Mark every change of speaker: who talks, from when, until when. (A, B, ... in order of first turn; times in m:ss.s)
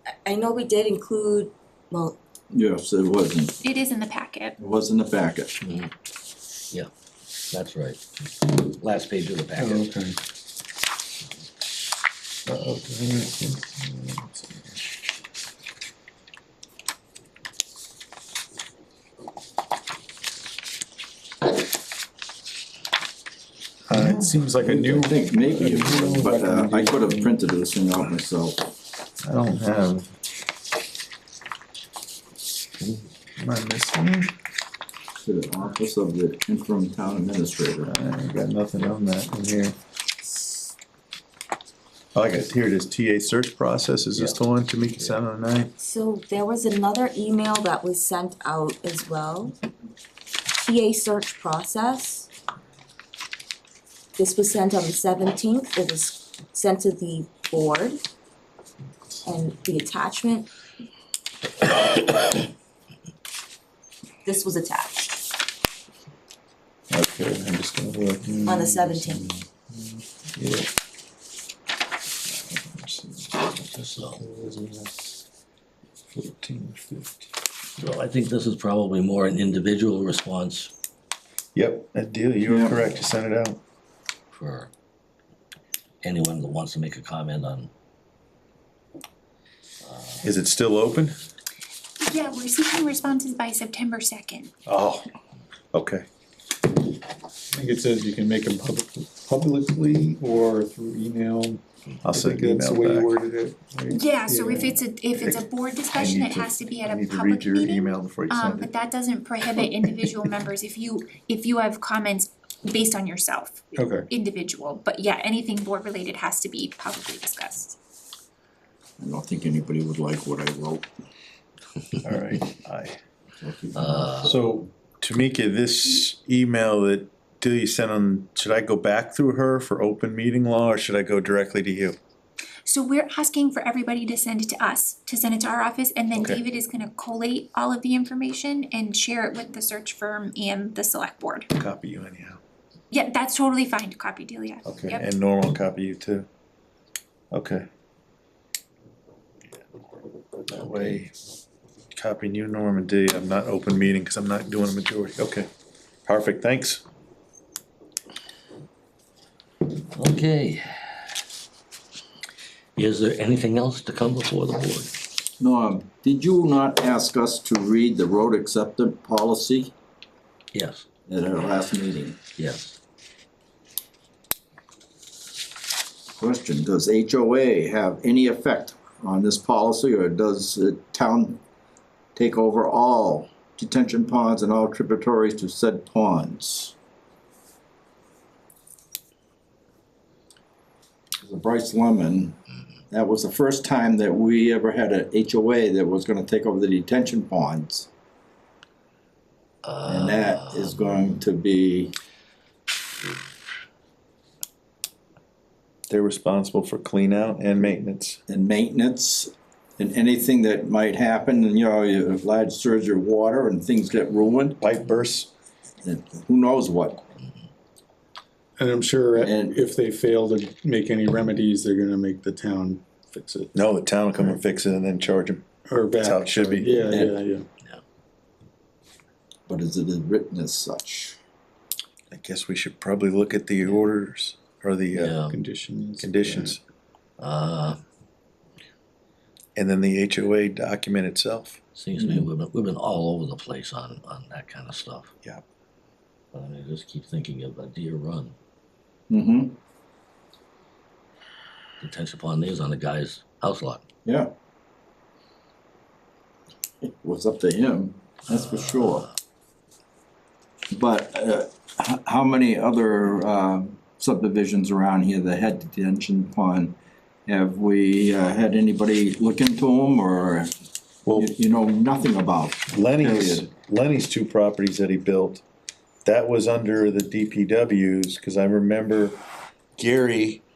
0:00.2-0:02.2 A
0:02.5-0:03.5 B
0:03.6-0:04.6 C
0:04.6-0:05.5 B
0:05.6-0:05.9 D
0:07.5-0:09.9 D
0:09.6-0:10.2 E
0:12.5-0:14.4 E
0:23.9-0:24.4 F
0:23.9-0:27.4 E
0:24.6-0:28.7 B
0:29.2-0:30.1 F
0:33.4-0:34.3 F
0:35.2-0:37.9 B
0:37.8-0:39.8 F
0:42.1-0:45.7 F
0:45.8-0:49.5 A
0:50.6-0:52.3 A
0:54.2-0:58.0 A
0:59.2-1:00.5 A
1:04.2-1:05.1 A
1:06.9-1:08.4 F
1:08.1-1:09.4 E
1:08.5-1:09.2 A
1:10.4-1:10.7 F
1:12.3-1:13.5 F
1:13.6-1:14.2 D
1:14.0-1:14.8 F
1:16.1-1:17.3 F
1:17.8-1:20.7 D
1:21.5-1:23.6 F
1:22.4-1:22.7 B
1:22.8-1:23.1 D
1:24.3-1:24.7 D
1:26.0-1:27.7 D
1:29.8-1:30.2 D
1:30.2-1:31.1 F
1:32.0-1:34.5 C
1:34.6-1:35.1 F
1:35.7-1:36.0 F
1:37.5-1:44.8 E
1:42.0-1:43.2 F
1:43.9-1:57.8 C
1:45.9-1:48.7 F
1:53.8-1:54.1 E
1:59.0-2:00.9 B
2:02.0-2:03.0 F
2:03.4-2:04.3 B
2:03.7-2:04.4 D
2:04.2-2:12.0 F
2:12.6-2:21.5 C
2:16.1-2:16.4 F
2:21.5-2:22.4 F
2:22.9-2:25.1 C
2:24.6-2:26.3 F
2:27.3-2:27.6 F
2:30.5-2:31.1 F
2:30.5-2:31.0 D
2:31.9-2:35.5 F
2:36.0-2:36.8 F
2:39.9-2:40.8 D
2:42.8-2:44.9 D
2:45.4-2:49.7 B
2:50.5-2:50.8 D
2:51.1-2:52.2 B
2:52.4-2:52.8 D
2:56.2-3:01.4 B
3:02.2-3:06.7 B
3:11.2-3:12.4 B
3:12.9-3:17.9 B
3:19.6-3:21.1 D
3:19.8-3:21.9 B
3:25.9-3:28.2 F
3:28.3-3:34.6 B
3:34.6-3:35.3 F
3:35.8-3:37.0 B
3:38.6-3:43.5 E
3:39.2-3:39.6 B
3:43.5-3:47.0 F
3:45.6-3:47.4 E
3:46.8-3:47.2 B
3:49.5-3:51.2 B
3:52.1-3:55.2 F
3:54.9-3:55.4 D
3:55.3-3:56.6 E
3:56.0-3:56.6 F
3:57.2-3:57.8 D
3:59.6-4:01.6 F
4:01.7-4:05.1 D
4:02.0-4:02.3 B
4:06.3-4:08.3 D
4:09.1-4:09.6 B
4:11.8-4:13.8 D
4:14.0-4:14.3 B
4:16.8-4:19.1 B
4:18.3-4:19.1 D
4:20.7-4:26.7 B
4:27.2-4:30.5 B
4:31.1-4:33.5 B
4:32.7-4:35.4 F
4:36.0-4:39.2 F
4:39.8-4:40.4 F